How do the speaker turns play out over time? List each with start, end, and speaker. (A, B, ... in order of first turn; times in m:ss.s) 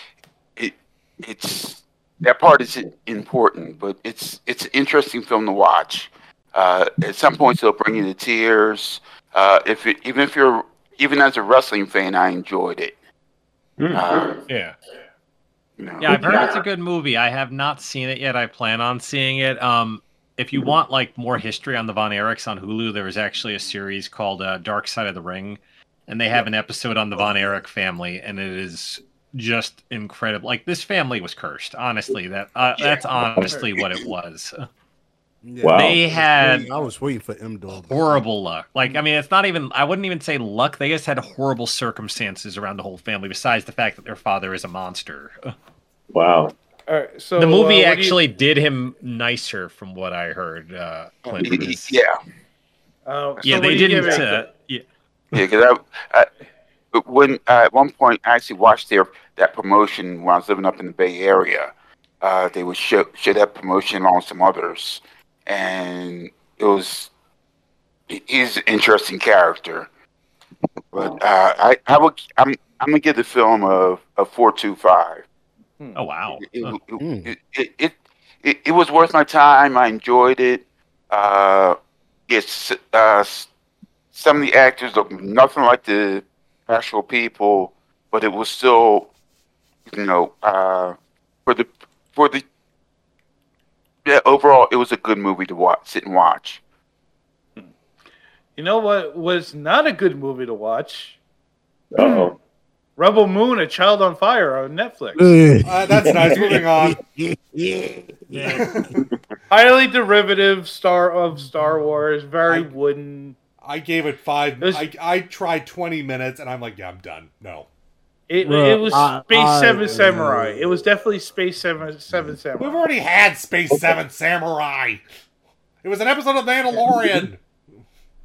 0:00.6-0:12.9 A
0:13.8-0:14.3 B
0:13.9-0:14.4 A
0:14.5-0:14.8 C
0:15.8-0:16.5 A
0:16.0-0:34.7 C
0:16.1-0:16.6 B
0:27.1-0:27.6 D
0:33.2-0:33.6 D
0:33.3-0:33.6 B
0:35.4-0:38.2 D
0:35.6-0:36.0 B
0:35.7-0:36.7 C
0:37.7-0:45.5 C
0:46.1-0:46.5 B
0:46.9-0:48.2 E
0:47.4-0:52.0 C
0:51.3-0:52.2 A
0:53.0-0:54.4 E
0:53.4-0:55.4 C
0:53.5-0:54.2 A
0:55.3-0:56.3 A
0:56.9-1:07.1 A
1:08.1-1:09.9 A
1:10.9-1:15.2 A
1:15.9-1:16.8 C
1:16.4-1:21.8 A
1:17.0-1:17.3 D
1:22.3-1:23.5 A
1:24.1-1:29.1 A
1:29.9-1:32.4 A
1:34.0-1:36.6 A
1:38.6-1:41.2 E
1:41.9-1:42.4 B
1:42.0-1:42.3 E
1:43.0-1:45.4 E
1:45.1-1:49.0 D
1:45.6-1:47.0 F
1:46.0-1:46.6 B
1:49.5-1:53.4 E
1:53.6-1:57.7 F
1:54.6-1:54.9 E
1:58.3-2:02.8 E
1:58.4-2:00.9 D
2:02.1-2:02.4 D
2:02.6-2:05.0 F
2:05.8-2:07.4 F
2:06.7-2:07.3 D